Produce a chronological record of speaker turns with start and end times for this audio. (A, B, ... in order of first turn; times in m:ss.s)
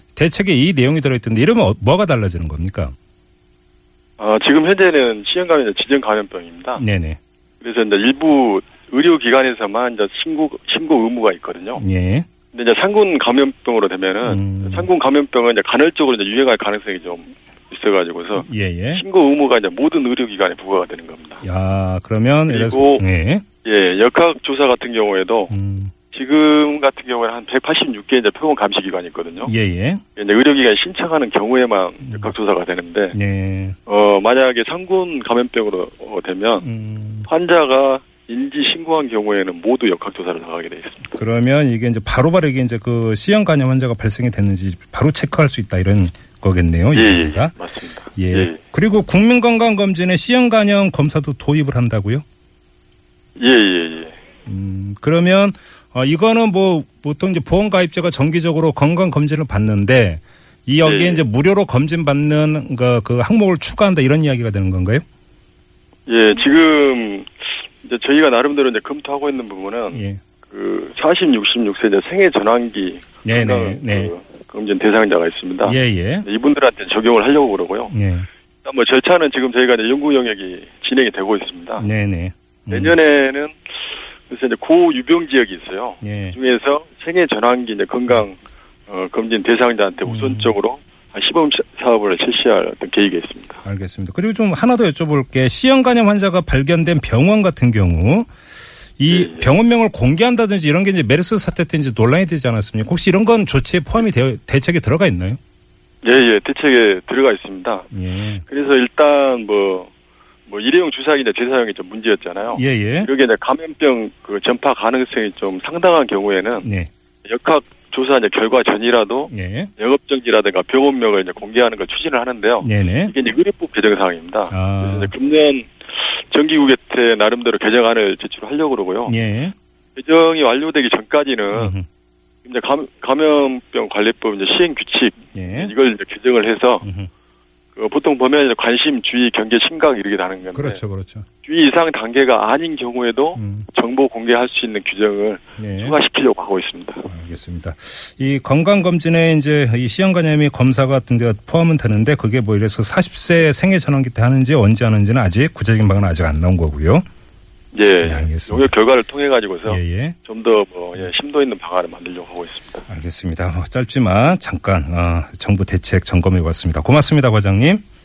0:00.2-0:02.9 A
0:04.2-0:06.8 B
0:06.8-0:07.2 A
0:07.6-0:11.8 B
0:11.8-0:12.3 A
0:12.5-0:21.4 B
0:14.2-0:14.9 A
0:18.4-0:19.0 A
0:21.4-0:23.4 A
0:22.5-0:23.0 B
0:23.6-0:25.5 B
0:25.5-0:25.9 A
0:26.1-0:29.5 B
0:29.5-0:30.0 A
0:30.2-0:33.2 B
0:33.1-0:33.8 A
0:33.9-0:36.7 B
0:36.6-0:37.3 A
0:37.3-0:41.1 B
0:41.1-0:47.5 A
0:46.9-0:48.6 B
0:48.2-0:52.2 A
0:53.4-0:54.2 B
0:54.5-1:05.0 A
1:00.8-1:01.2 B
1:06.1-1:18.0 B
1:09.9-1:10.2 A
1:13.2-1:14.1 A
1:15.6-1:16.3 A
1:17.9-1:18.3 A
1:18.6-1:21.9 B
1:21.8-1:23.0 A
1:22.7-1:23.7 B
1:24.3-1:33.6 B
1:26.0-1:26.4 A
1:30.1-1:30.5 A
1:33.6-1:38.3 A
1:39.0-1:45.4 A
1:39.1-1:39.6 B
1:46.0-1:47.9 B
1:47.9-1:48.4 A
1:48.4-1:49.9 B
1:50.5-1:56.7 B
1:52.6-1:53.1 A
1:56.6-1:56.9 A
1:57.2-2:09.2 B
1:59.3-1:59.7 A
2:02.6-2:03.1 A
2:04.5-2:05.1 A
2:09.1-2:09.6 A
2:10.0-2:11.8 B
2:11.5-2:11.9 A
2:12.4-2:16.9 B
2:15.3-2:15.7 A
2:16.8-2:17.1 A
2:17.7-2:20.8 B
2:20.5-2:21.3 A
2:21.4-2:27.1 B
2:23.4-2:23.7 A
2:25.6-2:26.0 A
2:27.1-2:37.0 A
2:37.7-2:42.9 B
2:38.0-2:38.7 A
2:39.7-2:40.2 A
2:42.9-2:47.8 A